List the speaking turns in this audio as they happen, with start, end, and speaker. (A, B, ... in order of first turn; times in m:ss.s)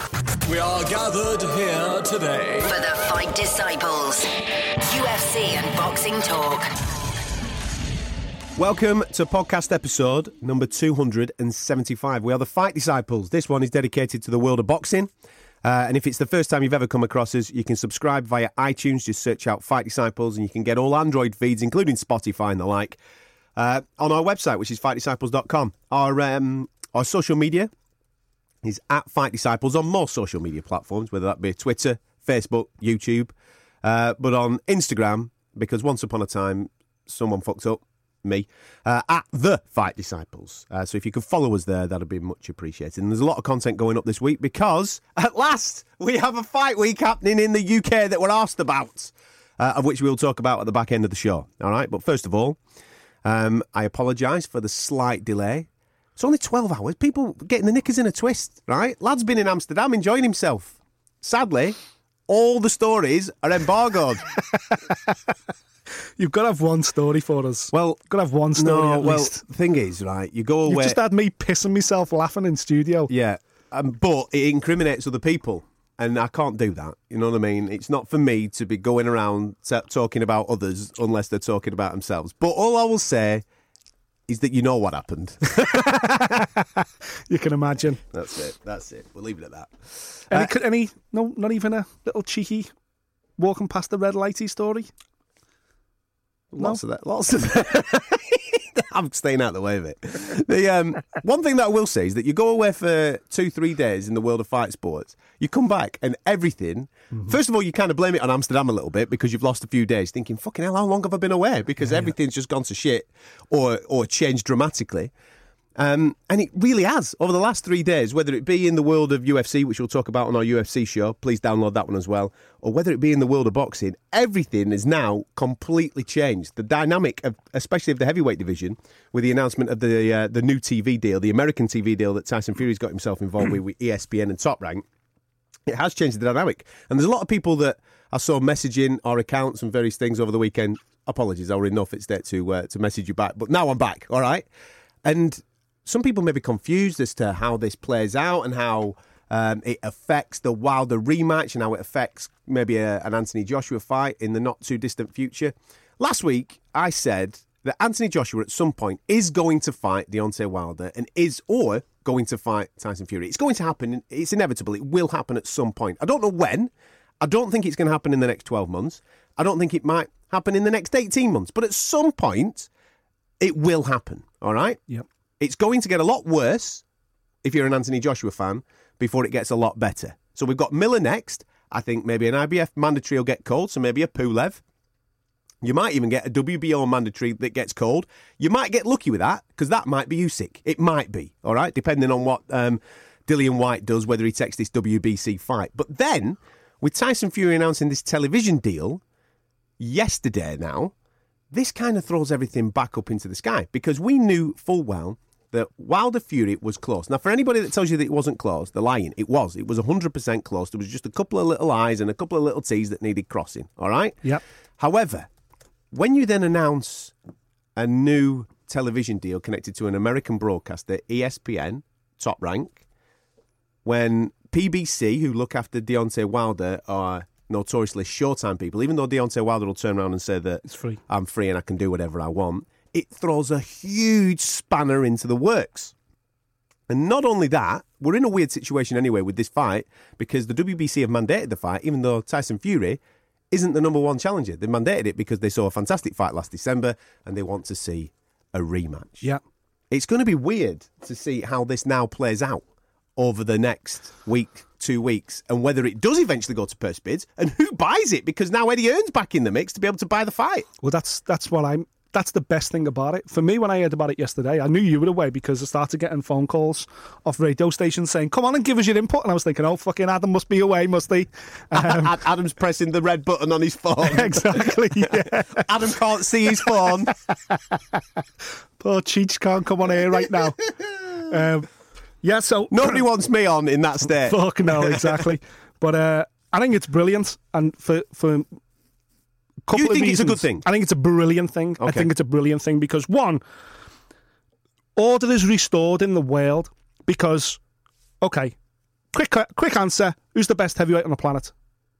0:00.4-0:02.8 A
0:02.7-0:04.3 B
0:04.8-0:06.7 B
0:08.6-0:15.1 C
0:15.6-0:23.0 C
0:23.6-0:27.7 C
0:28.6-0:52.6 C
0:53.2-1:01.8 C
1:02.3-1:04.3 C
1:06.2-1:09.4 D
1:07.7-1:08.0 C
1:08.6-1:11.0 C
1:10.7-1:13.1 D
1:13.1-1:23.4 C
1:24.3-1:26.5 C
1:25.8-1:28.0 D
1:28.1-1:30.5 C
1:30.3-1:32.7 D
1:33.4-1:34.9 D
1:36.5-1:55.1 C
1:55.8-2:14.8 C
2:15.7-2:24.5 C
2:25.0-2:52.7 C
2:53.4-2:54.8 C
2:55.4-2:56.8 C
2:57.4-3:04.6 C
3:05.6-3:19.0 C
3:19.8-3:20.9 C
3:21.5-3:34.2 C
3:34.8-3:35.3 C
3:35.9-3:37.1 C
3:37.8-3:42.8 C
3:43.8-3:55.9 C
3:50.6-3:51.0 D
3:56.9-4:09.3 C
4:09.9-4:12.6 C
4:13.2-4:20.7 C
4:20.8-4:32.2 D
4:31.7-4:37.1 C
4:34.0-4:35.7 D
4:36.6-4:37.6 D
4:38.8-4:41.7 D
4:42.2-4:43.0 D
4:42.7-4:45.3 C
4:44.2-4:48.5 D
4:49.7-4:53.4 D
4:49.7-4:50.6 C
4:51.8-4:52.1 C
4:55.0-4:57.6 D
4:58.2-4:58.6 D
4:59.1-5:01.5 D